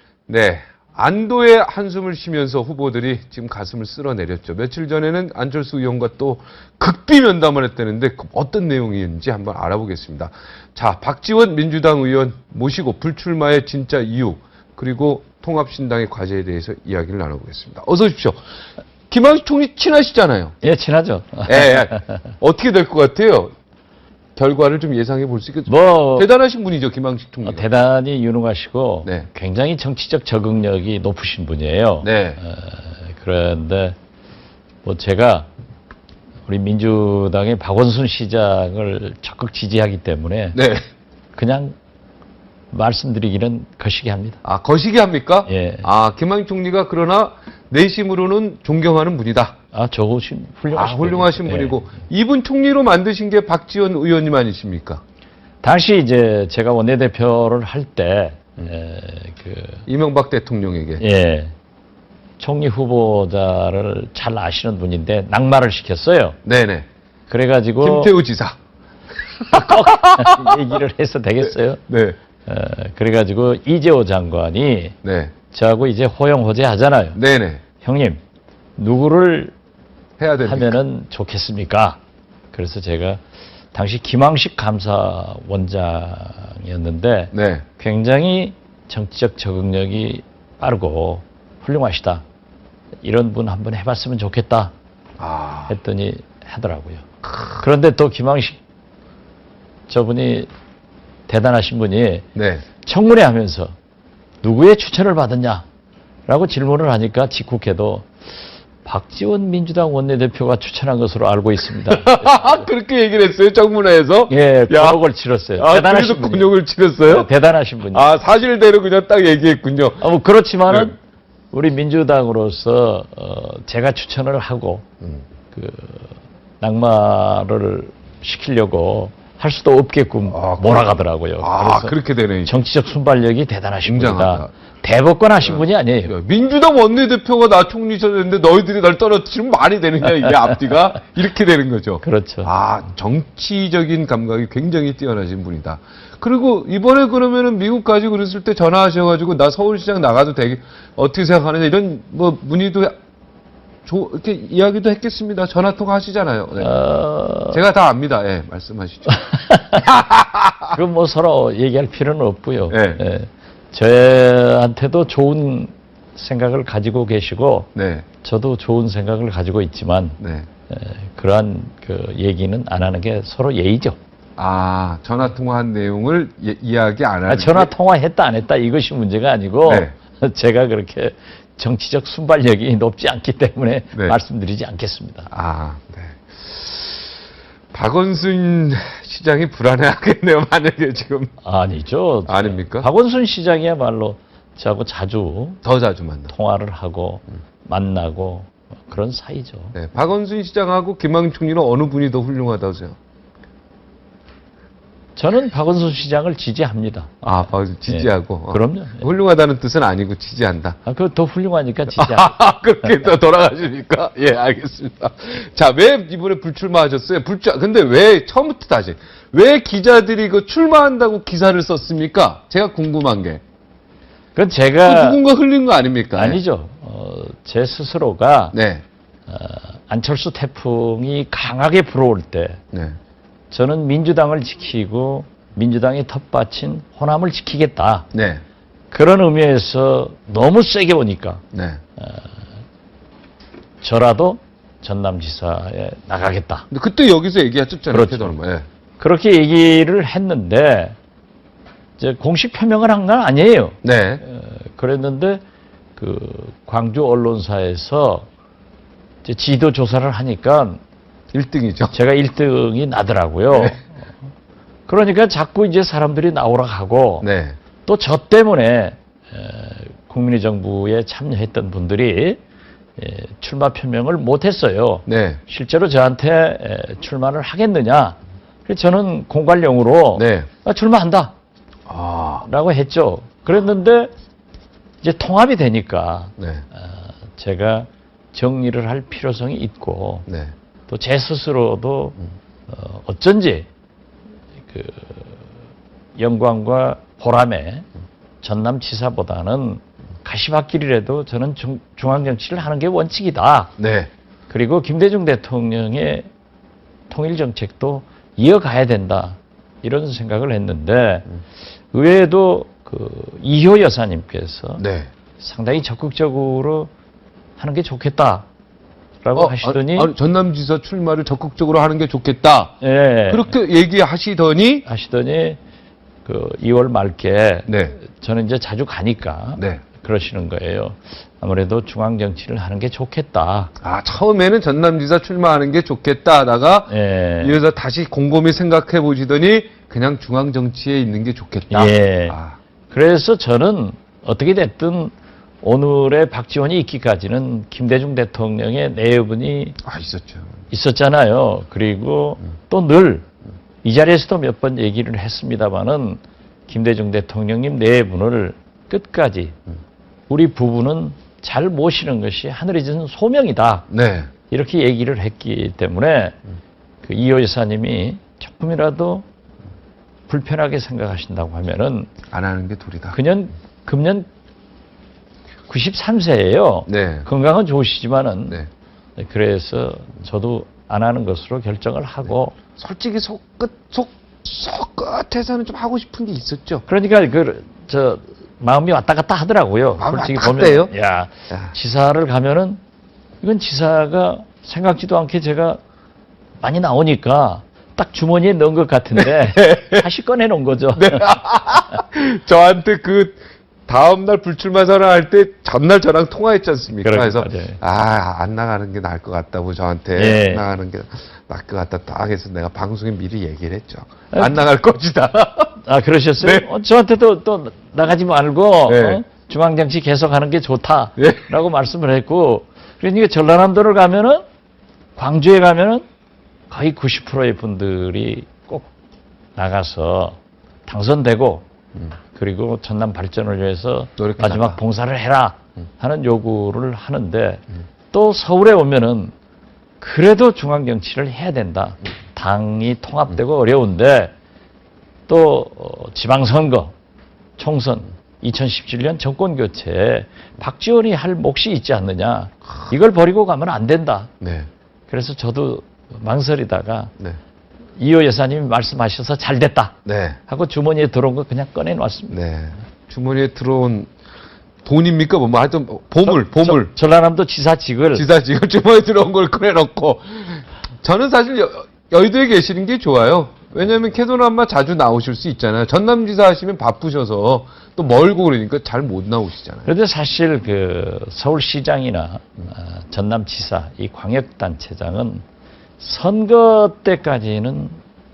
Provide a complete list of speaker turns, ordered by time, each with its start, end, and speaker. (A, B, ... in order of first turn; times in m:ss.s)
0:00.3-0:18.4 A
0:19.1-0:20.6 A
0:20.6-0:22.2 B
0:21.5-0:23.5 A
0:24.4-0:27.6 A
0:25.7-0:26.3 B
0:27.4-0:34.0 B
0:32.0-0:32.4 A
0:34.8-0:35.5 B
0:36.4-0:40.6 B
0:40.5-0:40.8 A
0:41.3-0:41.8 B
0:42.7-0:44.4 B
0:44.4-0:49.6 A
0:45.5-0:45.9 B
0:49.7-0:51.8 B
0:50.7-0:55.0 A
0:55.6-0:59.8 B
0:59.9-1:01.0 A
1:01.0-1:01.5 B
1:02.4-1:06.4 B
1:06.4-1:06.9 A
1:07.3-1:08.1 B
1:07.8-1:08.6 A
1:09.3-1:10.8 A
1:09.5-1:11.8 B
1:11.9-1:12.2 A
1:12.4-1:15.0 B
1:15.0-1:15.3 A
1:15.5-1:17.2 B
1:17.2-1:17.6 A
1:17.8-1:18.2 B
1:18.8-1:19.5 B
1:20.2-1:20.8 A
1:20.4-1:22.0 B
1:22.5-1:23.2 B
1:23.7-1:32.2 B
1:27.3-1:27.6 A
1:33.0-1:34.7 B
1:35.2-1:35.7 A
1:35.7-1:38.6 B
1:39.9-1:40.5 B
1:41.3-1:42.2 B
1:42.3-1:42.6 A
1:42.8-1:43.7 B
1:44.4-1:45.6 B
1:46.3-1:48.1 B
1:48.8-1:52.7 B
1:51.9-1:55.0 A
1:54.3-1:56.5 B
1:55.6-1:57.3 A
1:57.0-1:58.0 B
1:57.9-2:00.0 A
2:00.0-2:01.0 B
2:01.5-2:04.8 B
2:05.5-2:16.1 B
2:10.3-2:12.6 A
2:13.8-2:14.5 A
2:15.4-2:32.9 A
2:22.0-2:22.5 B
2:33.9-2:36.8 A
2:36.6-2:37.6 B
2:37.5-2:40.8 A
2:39.3-2:39.8 B
2:40.7-2:47.7 B
2:42.7-2:43.0 A
2:47.8-2:48.0 A
2:48.2-2:50.2 B
2:50.2-2:50.5 A
2:50.7-2:54.0 B
2:54.4-2:57.7 A
2:57.3-3:05.3 B
2:59.7-3:00.0 A
3:03.9-3:04.2 A
3:05.3-3:07.0 A
3:07.7-3:11.3 A
3:11.4-3:15.6 B
3:12.3-3:12.9 A
3:15.6-3:16.3 A
3:16.3-3:19.7 B
3:19.7-3:23.0 A
3:25.2-3:27.2 B
3:27.2-3:30.8 A
3:27.9-3:29.0 B
3:30.9-3:32.3 B
3:31.9-3:43.4 A
3:44.3-3:45.2 B
3:44.8-3:46.4 A
3:46.2-3:48.6 B
3:48.5-3:48.8 A
3:49.3-3:52.6 B
3:53.5-3:58.1 B
3:58.1-3:58.4 A
3:58.9-4:01.4 B
4:01.5-4:01.8 A
4:02.0-4:02.4 B
4:03.8-4:06.7 B
4:06.7-4:08.7 A
4:07.9-4:08.4 B
4:09.0-4:11.0 B
4:12.0-4:15.4 B
4:13.8-4:14.2 A
4:16.0-4:18.3 B
4:19.2-4:20.8 B
4:21.3-4:22.0 A
4:21.9-4:24.0 B
4:23.5-4:23.8 A
4:24.9-4:27.2 B
4:27.2-4:27.6 A
4:27.8-4:32.4 B
4:33.0-4:41.3 B
4:35.1-4:35.4 A
4:40.2-4:40.5 A
4:41.9-4:42.4 A
4:42.4-4:44.1 B
4:45.0-4:50.2 B
4:46.4-4:46.6 A
4:50.3-4:50.5 A
4:50.9-4:52.2 B
4:52.7-4:53.7 B
4:54.7-4:55.4 B
4:56.2-4:57.8 B
4:58.4-5:03.8 B
5:03.8-5:04.1 A
5:04.5-5:06.3 B
5:07.1-5:11.2 B
5:11.9-5:14.8 B
5:14.8-5:15.1 A
5:15.4-5:16.9 B
5:17.6-5:18.5 B
5:19.2-5:20.1 B
5:19.4-5:22.8 A
5:22.8-5:23.5 B
5:23.3-5:24.8 A
5:24.8-5:25.6 B
5:26.2-5:33.7 B
5:27.7-5:28.0 A
5:29.6-5:29.8 A
5:33.8-5:42.6 A
5:36.9-5:37.6 B
5:41.7-5:42.4 B
5:42.9-5:49.8 B
5:49.8-5:50.5 A
5:50.7-5:53.2 B
5:53.8-5:59.6 B
6:00.3-6:03.9 B
6:03.9-6:04.3 A
6:04.5-6:06.4 B
6:07.0-6:09.2 B
6:10.3-6:12.1 B
6:12.3-6:13.2 A
6:13.1-6:14.3 B
6:15.7-6:18.6 B
6:16.9-6:17.3 A
6:19.2-6:22.5 B
6:22.8-6:26.8 A
6:26.9-6:32.8 B
6:30.0-6:30.9 A
6:33.4-6:35.8 B
6:36.6-6:41.4 B
6:39.2-6:40.1 A
6:40.9-6:55.8 A
6:47.0-6:47.8 B
6:50.2-6:50.6 B
6:54.3-6:54.6 B
6:55.8-7:04.4 B
6:56.4-6:56.6 A
6:58.9-6:59.2 A
7:01.2-7:01.5 A
7:05.2-7:06.0 B
7:06.7-7:08.9 B
7:09.5-7:11.6 B
7:12.3-7:19.3 B
7:14.2-7:14.8 A
7:20.0-7:24.3 B
7:25.3-7:26.9 B
7:27.6-7:34.3 B
7:34.4-7:34.7 A
7:35.1-7:37.1 B
7:38.0-7:42.4 B
7:40.0-7:40.4 A
7:42.3-7:44.1 A
7:44.8-7:46.9 A
7:46.2-7:48.2 B
7:48.1-7:59.9 A
7:59.8-8:05.4 B
8:06.0-8:08.0 B